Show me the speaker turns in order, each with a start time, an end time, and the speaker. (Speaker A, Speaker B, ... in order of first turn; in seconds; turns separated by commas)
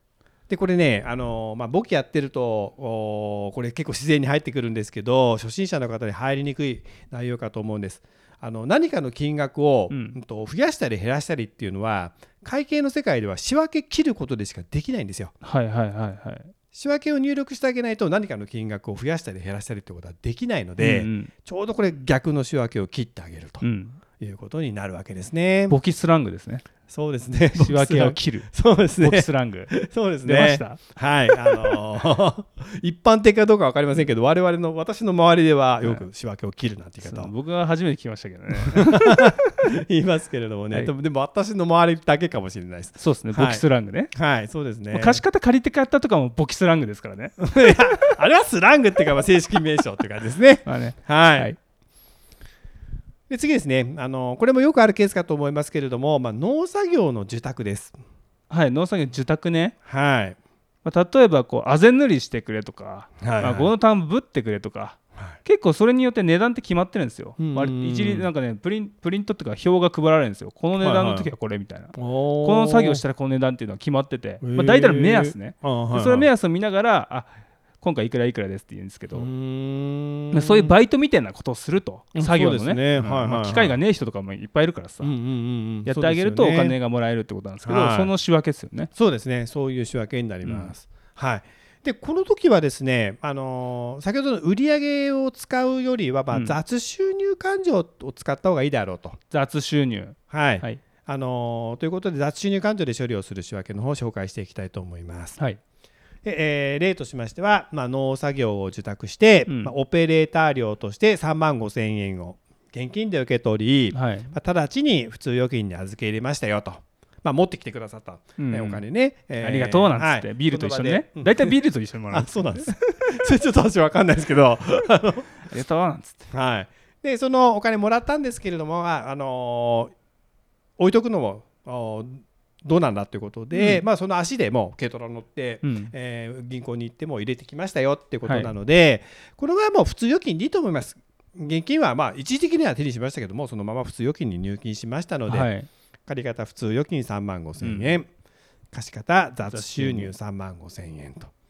Speaker A: 0.5-15.3, Speaker B: 9.9-10.2, Speaker B: 15.4-16.5, Speaker A: 16.7-23.6, Speaker B: 20.8-21.3, Speaker B: 23.6-24.0, Speaker A: 24.2-25.8, Speaker B: 25.7-26.6, Speaker A: 26.9-37.3, Speaker B: 27.6-30.8, Speaker B: 31.5-31.8, Speaker B: 37.0-39.6, Speaker A: 38.6-45.2, Speaker B: 43.0-44.1, Speaker B: 44.9-48.2, Speaker A: 47.4-51.5, Speaker B: 50.7-51.6, Speaker A: 53.3-58.0, Speaker B: 58.5-59.8, Speaker A: 59.9-60.4, Speaker B: 60.9-79.3, Speaker A: 63.2-63.7, Speaker A: 67.4-68.3, Speaker A: 70.8-71.3, Speaker A: 71.9-73.0, Speaker A: 74.4-76.3, Speaker A: 79.2-80.7, Speaker B: 80.3-85.1, Speaker A: 82.2-83.8, Speaker A: 85.0-86.8, Speaker B: 85.8-88.9, Speaker A: 87.6-88.1, Speaker A: 89.0-99.2, Speaker B: 90.5-90.7, Speaker B: 96.3-96.6, Speaker B: 99.3-100.8, Speaker A: 100.3-105.4, Speaker A: 106.2-121.5, Speaker B: 109.5-109.7, Speaker B: 113.9-114.3, Speaker B: 118.4-118.8, Speaker B: 119.4-123.3, Speaker A: 122.1-125.3, Speaker B: 125.4-126.3, Speaker A: 126.3-129.9, Speaker A: 130.8-145.5, Speaker B: 133.5-133.8, Speaker B: 135.6-135.9, Speaker B: 138.3-138.5, Speaker B: 145.3-145.7, Speaker A: 146.1-148.1, Speaker B: 147.6-148.0, Speaker A: 148.7-151.3, Speaker B: 149.5-150.1